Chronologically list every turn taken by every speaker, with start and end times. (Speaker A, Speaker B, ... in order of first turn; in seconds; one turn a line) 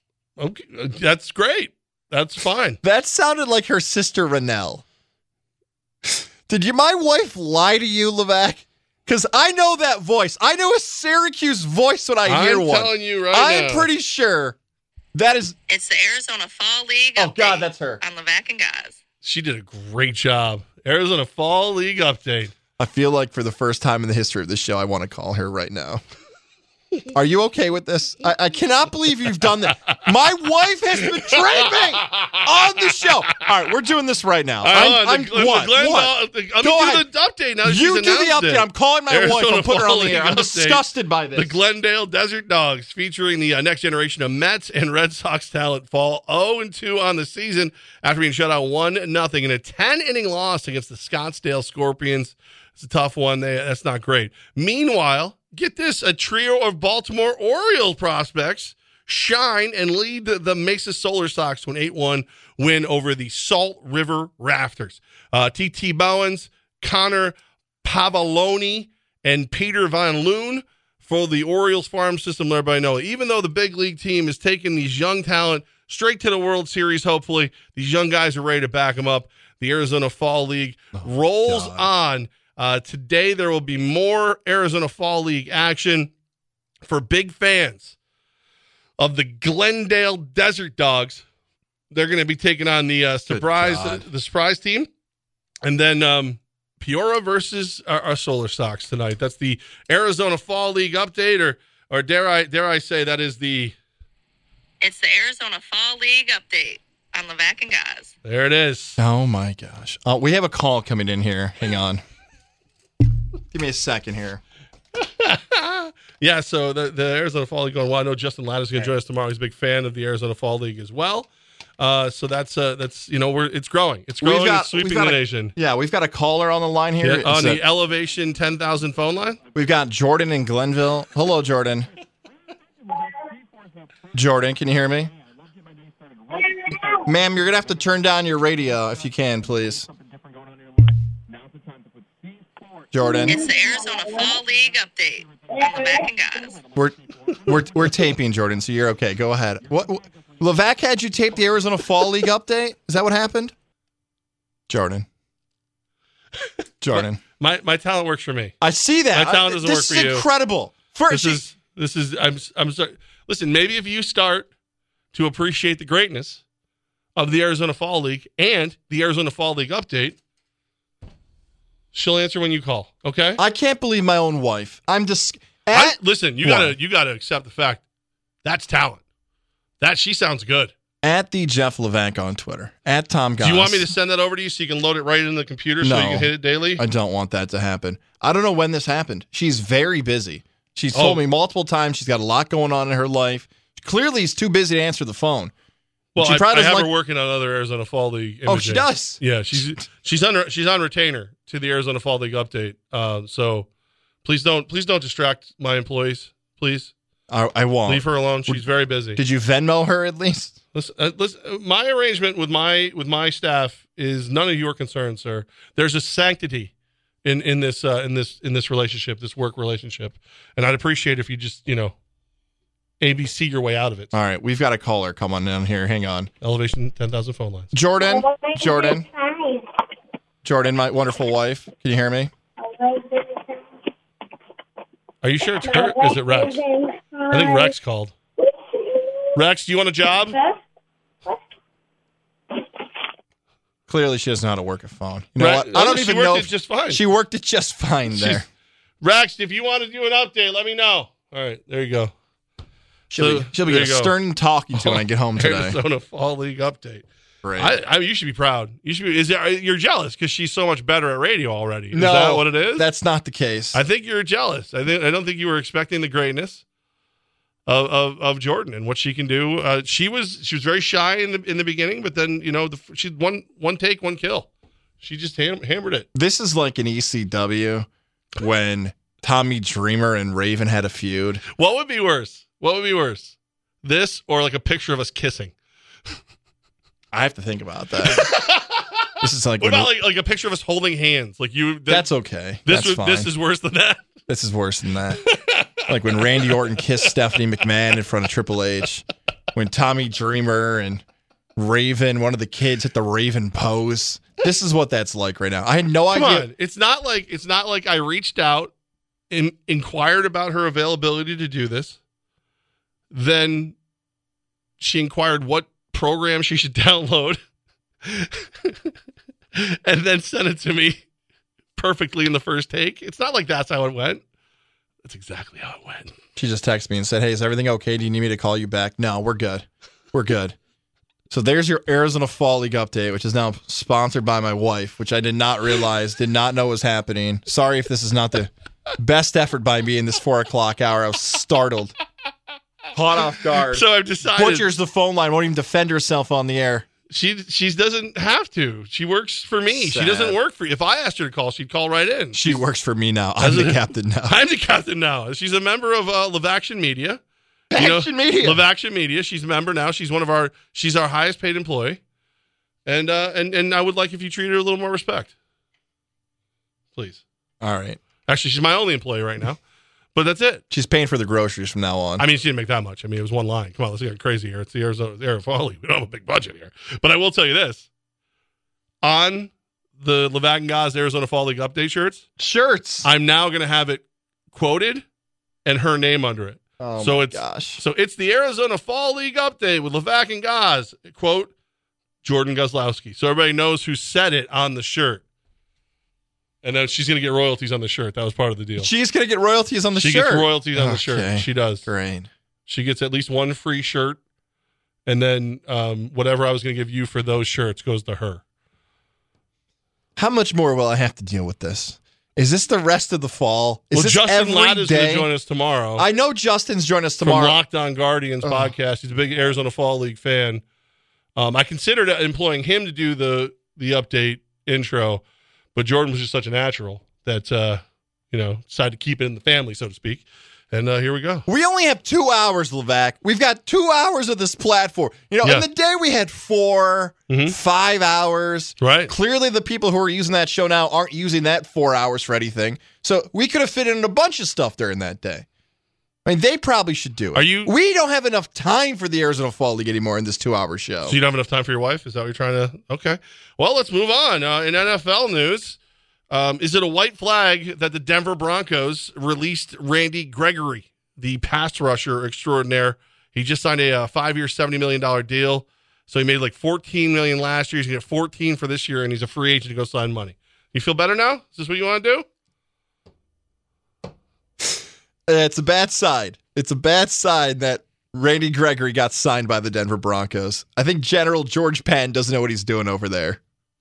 Speaker A: 0.4-2.8
Speaker B: 2.8-4.8
Speaker B: 6.0-14.6
Speaker A: 12.2-13.9
Speaker B: 15.1-15.6
Speaker C: 15.7-19.0
Speaker B: 17.2-18.0
Speaker A: 19.2-22.5
Speaker B: 22.8-26.0
Speaker B: 27.1-37.0
Speaker A: 31.0-33.0
Speaker A: 34.6-40.8
Speaker B: 37.6-41.6
Speaker A: 41.3-86.1
Speaker B: 80.9-81.9
Speaker A: 86.8-88.0
Speaker A: 89.0-91.2
Speaker A: 91.9-94.9
Speaker B: 93.3-94.0
Speaker A: 95.6-103.8
Speaker C: 104.8-108.1
Speaker A: 108.2-109.0
Speaker B: 109.0-112.0
Speaker B: 113.5-114.4
Speaker A: 115.0-121.3
Speaker A: 121.8-125.5
Speaker B: 124.2-127.6
Speaker A: 127.0-129.4
Speaker B: 129.5-131.9
Speaker B: 134.1-135.1
Speaker B: 137.0-139.9
Speaker B: 142.9-143.4
Speaker C: 143.3-146.6
Speaker B: 146.7-153.5
Speaker B: 154.7-155.1
Speaker B: 156.8-157.2
Speaker A: 156.9-158.5
Speaker B: 158.6-161.5
Speaker A: 159.1-160.2
Speaker A: 161.1-164.5
Speaker A: 165.1-166.4
Speaker A: 167.2-170.2
Speaker A: 171.9-173.4
Speaker B: 173.4-176.7
Speaker A: 175.7-177.8
Speaker A: 178.4-179.0
Speaker A: 179.8-180.7
Speaker B: 181.0-183.9
Speaker A: 183.4-186.8
Speaker B: 185.8-195.5
Speaker A: 190.9-191.2
Speaker A: 196.1-203.7
Speaker B: 196.2-196.9
Speaker B: 198.4-199.8
Speaker A: 204.2-206.9
Speaker B: 207.3-208.6
Speaker A: 207.9-209.2
Speaker B: 209.2-210.5
Speaker A: 210.7-216.7
Speaker A: 217.2-221.9
Speaker A: 223.0-224.1
Speaker B: 224.1-226.3
Speaker A: 226.4-227.7
Speaker B: 227.7-229.1
Speaker B: 230.4-232.3
Speaker A: 235.2-236.6
Speaker A: 237.3-238.1
Speaker A: 239.3-240.4
Speaker B: 243.9-248.4
Speaker A: 245.4-247.0
Speaker A: 248.1-248.4
Speaker A: 249.0-252.1
Speaker B: 253.1-255.8
Speaker A: 253.2-254.1
Speaker A: 254.7-257.1
Speaker B: 257.4-257.7
Speaker A: 257.6-262.9
Speaker B: 261.9-263.8
Speaker A: 263.7-266.6
Speaker A: 267.6-274.5
Speaker A: 275.0-276.1
Speaker B: 276.1-281.4
Speaker A: 281.6-285.5
Speaker B: 287.1-288.3
Speaker A: 288.0-288.8
Speaker B: 289.2-289.9
Speaker A: 289.6-292.1
Speaker B: 291.9-293.3
Speaker A: 292.6-294.1
Speaker B: 294.3-295.2
Speaker A: 295.3-296.6
Speaker B: 295.9-301.0
Speaker B: 301.6-306.5
Speaker A: 306.1-308.7
Speaker A: 309.3-312.0
Speaker A: 313.1-313.8
Speaker A: 314.8-317.4
Speaker A: 318.0-318.9
Speaker A: 319.6-321.0
Speaker A: 321.8-324.2
Speaker A: 325.0-326.1
Speaker B: 326.4-330.5
Speaker B: 331.3-341.9
Speaker B: 342.9-346.9
Speaker A: 343.5-344.7
Speaker A: 347.1-352.6
Speaker B: 349.7-350.4
Speaker B: 352.3-354.4
Speaker A: 353.4-357.2
Speaker B: 357.7-358.6
Speaker A: 357.7-362.0
Speaker A: 362.9-365.3
Speaker A: 366.9-367.2
Speaker B: 367.6-368.0
Speaker A: 368.2-369.6
Speaker A: 370.1-370.6
Speaker B: 370.7-372.2
Speaker A: 372.2-377.9
Speaker A: 379.0-382.2
Speaker B: 382.4-383.1
Speaker A: 383.0-385.0
Speaker A: 385.6-391.5
Speaker B: 386.8-387.8
Speaker A: 392.2-395.2
Speaker A: 396.6-398.9
Speaker B: 398.8-402.3
Speaker A: 399.9-401.9
Speaker A: 402.6-404.2
Speaker A: 405.1-408.4
Speaker B: 410.1-415.3
Speaker A: 413.9-416.0
Speaker B: 416.0-417.6
Speaker A: 417.2-420.6
Speaker B: 418.4-418.7
Speaker A: 421.4-425.2
Speaker A: 425.7-431.4
Speaker B: 431.5-445.4
Speaker A: 437.3-437.6
Speaker A: 438.8-439.1
Speaker B: 446.2-451.1
Speaker A: 447.3-447.7
Speaker A: 451.1-455.8
Speaker A: 456.3-472.2
Speaker B: 474.6-483.4